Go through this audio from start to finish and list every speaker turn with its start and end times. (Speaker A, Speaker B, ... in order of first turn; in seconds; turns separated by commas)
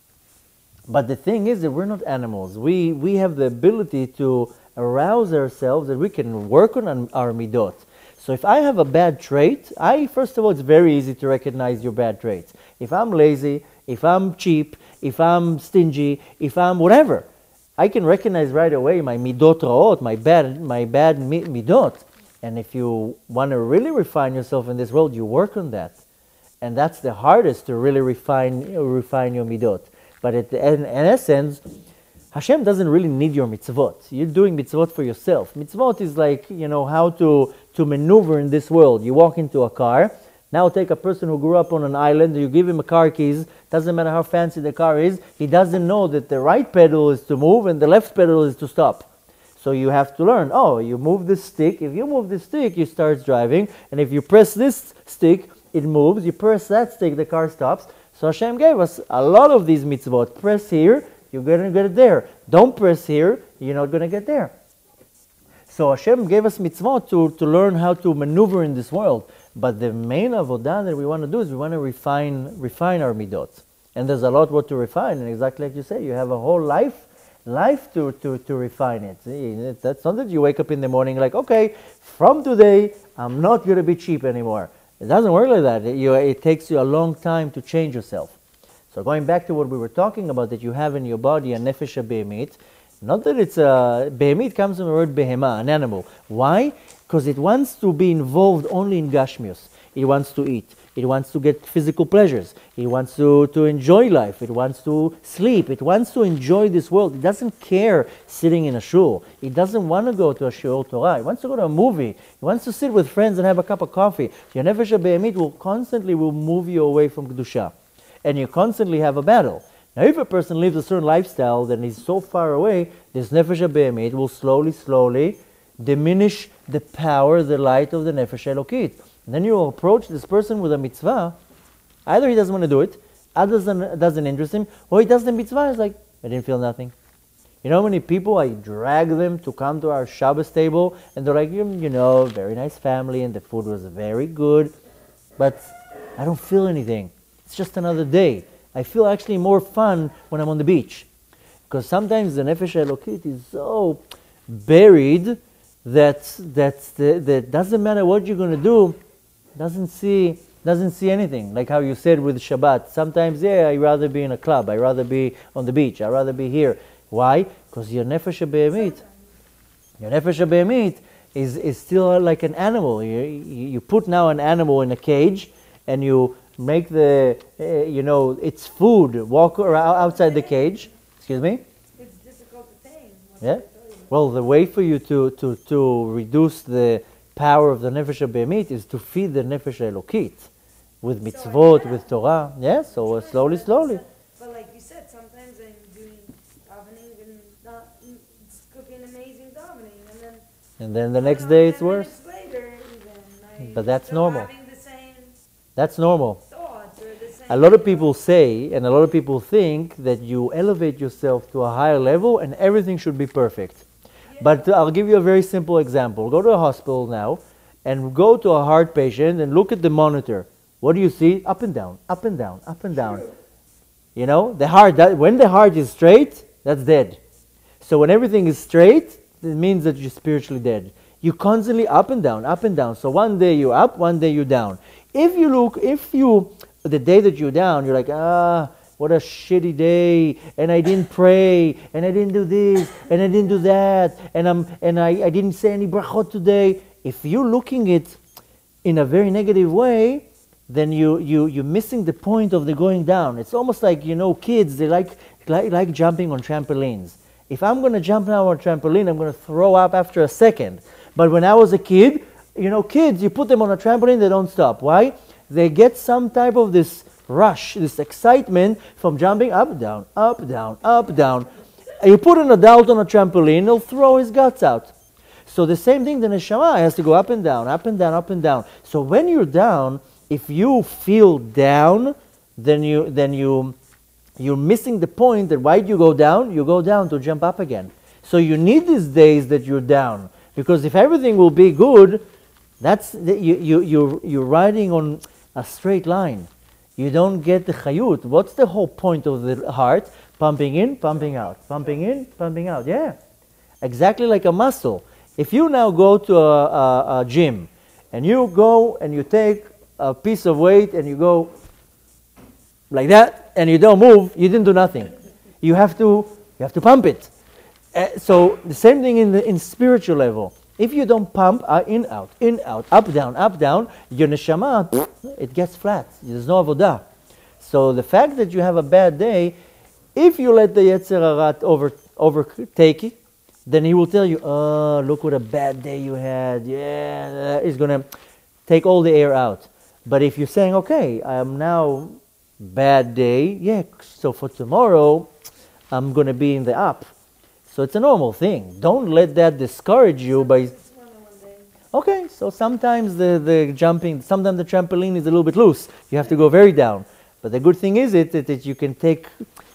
Speaker A: 0.9-17.3, Speaker A: 17.8-26.0, Speaker A: 26.6-31.6, Speaker A: 32.3-49.1, Speaker A: 49.6-64.5, Speaker A: 65.7-88.4, Speaker A: 88.9-131.4, Speaker A: 132.1-136.9, Speaker A: 137.6-144.7, Speaker A: 145.4-151.1, Speaker A: 151.7-159.0, Speaker A: 159.6-169.0, Speaker B: 168.6-169.4, Speaker A: 170.0-181.6, Speaker B: 179.7-180.9, Speaker B: 182.0-184.2, Speaker A: 183.4-190.5, Speaker A: 191.0-194.0, Speaker B: 191.2-200.4, Speaker A: 200.8-202.2, Speaker B: 201.2-205.4, Speaker A: 203.6-204.5, Speaker A: 205.8-206.4, Speaker B: 206.5-208.1, Speaker A: 207.5-213.8, Speaker B: 214.3-214.7, Speaker A: 214.4-223.3, Speaker B: 223.1-223.3, Speaker A: 224.2-227.2, Speaker A: 227.8-248.2, Speaker A: 248.8-274.9, Speaker A: 275.5-283.8, Speaker A: 284.4-292.2, Speaker A: 292.8-303.2, Speaker A: 303.8-311.5, Speaker A: 312.9-317.3, Speaker A: 317.9-327.0, Speaker A: 327.6-329.6, Speaker A: 330.1-338.1, Speaker A: 338.7-345.3, Speaker A: 345.9-347.1, Speaker A: 347.7-350.7, Speaker B: 350.2-351.7, Speaker A: 351.9-359.4